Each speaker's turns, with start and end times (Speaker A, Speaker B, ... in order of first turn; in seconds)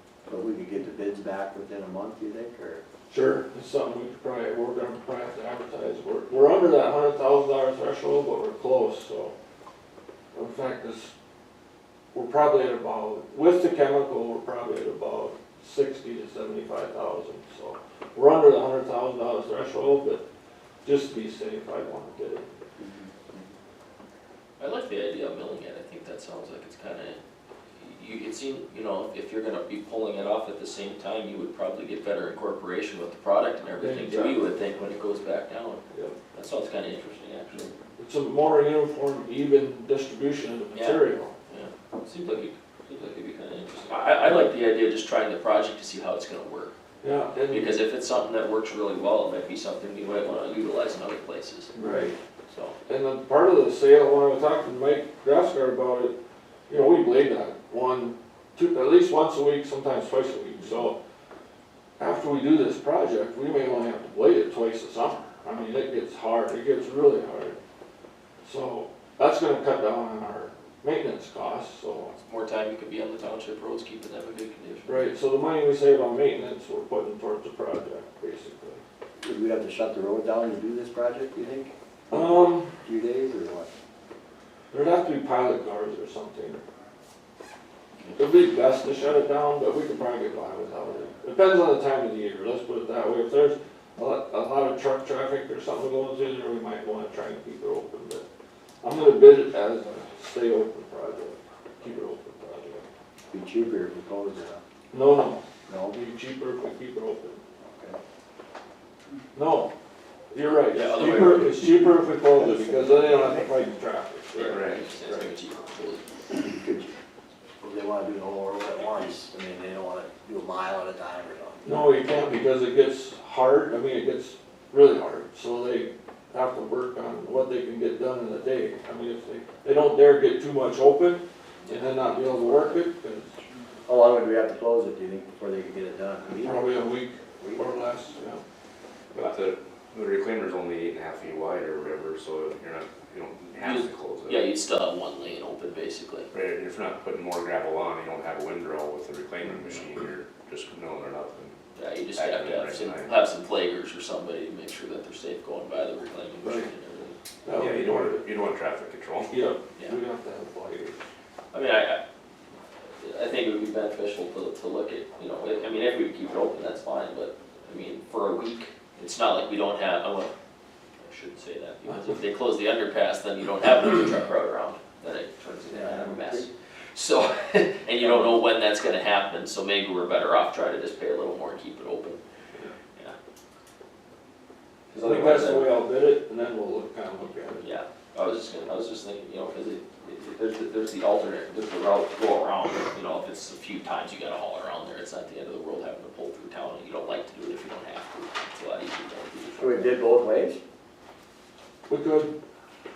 Speaker A: 0.2-2.8, 22.8-23.5, 51.7-52.1, 79.2-83.7, 103.3-104.6, 105.7-106.1, 107.6-108.0, 112.2-113.7, 116.3-116.9, 117.6-121.9, 133.9-136.7, 137.4-137.6, 175.7-176.5, 199.6-200.6
Speaker B: 3.1-9.3, 10.3-11.1, 12.1-20.2, 20.8-22.5, 33.8-34.4, 35.9-36.1, 38.0-41.3, 47.0-47.8, 51.8-52.1, 52.9-56.1, 56.7-61.0, 62.0-67.6, 68.4-72.1, 74.8-78.8, 82.1-82.7, 84.7-86.6, 88.1-98.2, 98.8-102.9, 104.9-107.4, 109.3-109.7, 110.3-115.3, 121.6-133.4, 136.4-138.4, 156.4-156.7, 157.4-158.3, 159.3-161.0, 185.0-187.7, 201.9-202.3
Speaker C: 24.6-27.2, 27.8-35.8, 36.3-37.7, 40.7-46.7, 47.5-51.7, 52.5-52.8, 72.2-75.0, 110.6-111.7, 114.3-116.1, 131.6-132.8, 143.6-146.3, 151.7-157.2, 161.5-162.0, 163.0-170.3, 171.0-182.2, 184.9-185.8, 187.6-200.0
Speaker D: 114.5-114.8, 139.1-144.4, 146.3-151.6, 152.1-153.2, 157.5-159.3